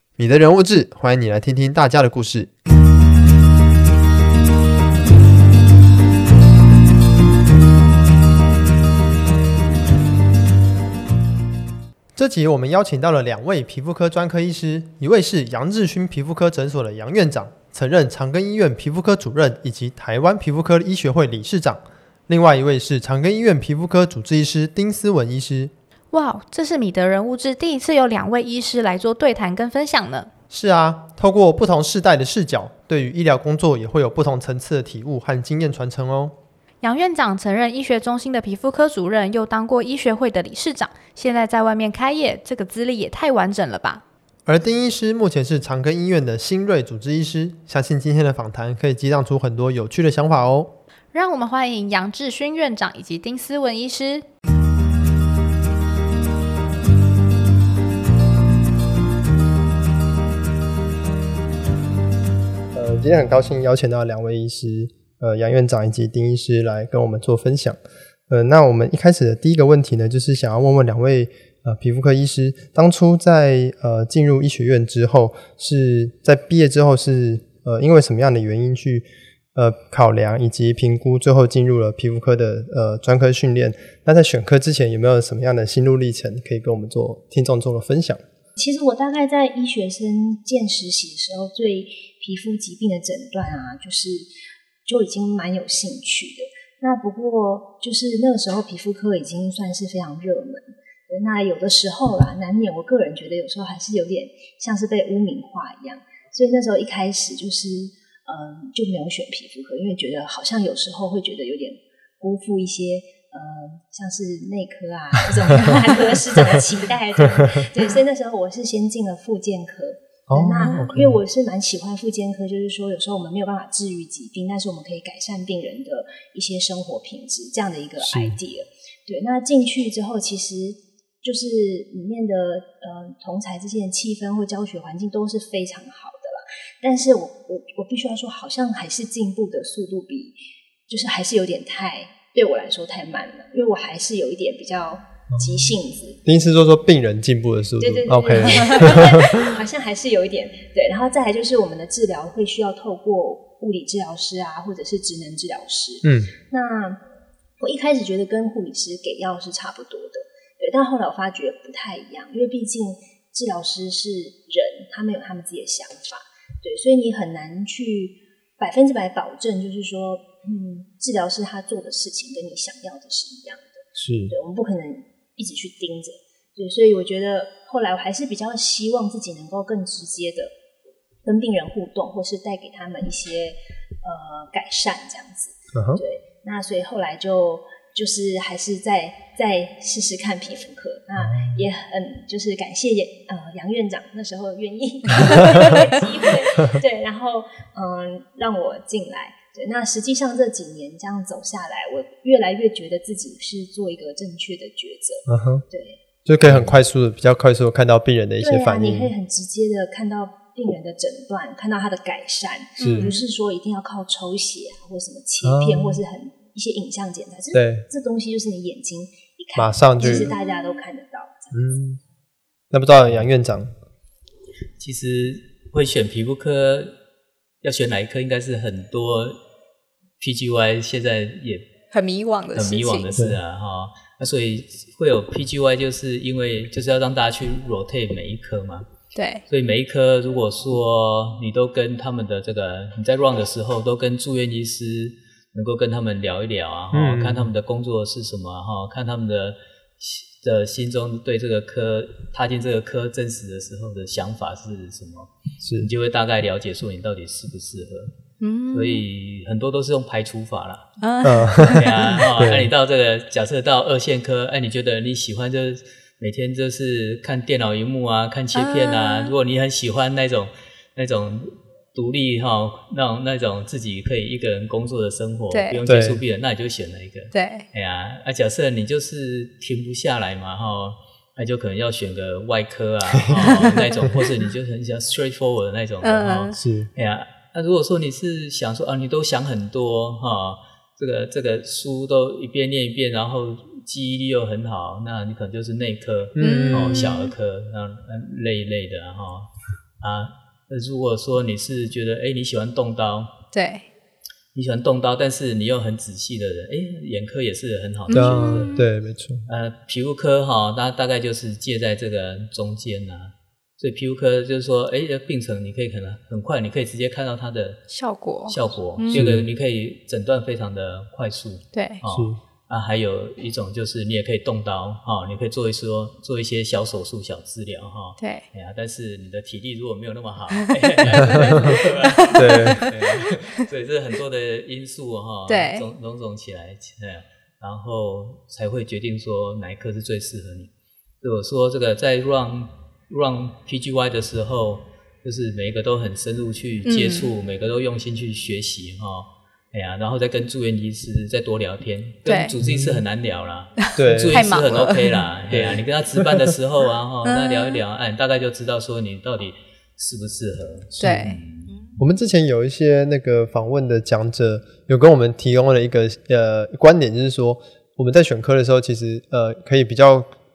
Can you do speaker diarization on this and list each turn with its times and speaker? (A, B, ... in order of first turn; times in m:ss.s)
0:00.2-0:02.5 A
0:12.2-0:25.7 A
0:26.1-0:30.3 B
0:30.5-0:36.4 A
0:36.8-0:44.0 B
0:44.4-0:50.8 A
0:51.1-0:54.2 B
1:02.7-1:28.2 A
1:28.6-1:34.3 C
1:34.8-2:20.4 C
2:00.3-2:01.2 A
2:08.0-2:08.4 A
2:20.9-2:26.2 C
2:25.3-2:25.6 A
2:26.2-2:29.4 A
2:27.8-2:37.0 C
2:36.0-2:36.3 A
2:37.6-3:00.5 C
2:54.0-2:54.3 A
3:01.2-3:26.0 C
3:05.7-3:06.0 A
3:11.2-3:11.6 A
3:15.4-3:15.8 B
3:25.3-3:25.6 A
3:26.2-3:29.1 A
3:26.4-3:26.8 D
3:28.4-3:41.7 C
3:32.8-3:33.2 B
3:32.8-3:33.1 A
3:35.4-3:36.0 A
3:37.5-3:37.8 A
3:39.6-3:40.3 A
3:41.5-3:42.0 A
3:42.7-3:43.7 A
3:44.8-3:46.9 D
3:47.6-3:49.4 D
3:50.2-3:51.7 D
3:51.9-3:53.1 B
3:52.5-3:58.8 D
3:59.1-3:59.4 B
3:59.5-4:18.1 D
4:06.9-4:07.5 A
4:15.6-4:15.9 A
4:18.4-4:19.0 B
4:18.7-4:20.9 D
4:21.0-4:22.2 B
4:21.2-4:22.7 A
4:21.7-5:03.3 D
4:28.5-4:29.3 B
4:35.5-4:35.8 B
4:35.8-4:36.2 A
4:37.3-4:37.6 B
4:43.2-4:44.3 A
4:43.5-4:43.9 B
4:46.0-4:46.5 B
4:46.5-4:46.9 A
4:56.4-4:57.2 A
4:56.4-4:57.3 B
5:03.5-5:03.8 B
5:04.5-5:08.8 D
5:08.1-5:08.8 B
5:08.1-5:09.4 A
5:09.5-5:17.9 D
5:17.9-5:19.3 B
5:18.5-5:40.7 D
5:19.1-5:19.4 A
5:21.7-5:22.0 B
5:22.0-5:22.4 A
5:30.9-5:33.3 B
5:31.0-5:31.8 A
5:32.3-5:32.9 A
5:35.5-5:35.9 B
5:41.2-6:01.8 D
5:46.8-5:47.3 B
5:52.2-5:52.5 B
5:52.6-5:53.0 A
5:53.9-5:55.2 B
5:54.0-5:54.6 A
5:55.5-5:56.5 A
5:57.2-5:57.8 B
6:01.0-6:01.3 A
6:01.0-6:01.4 B
6:02.0-6:10.3 A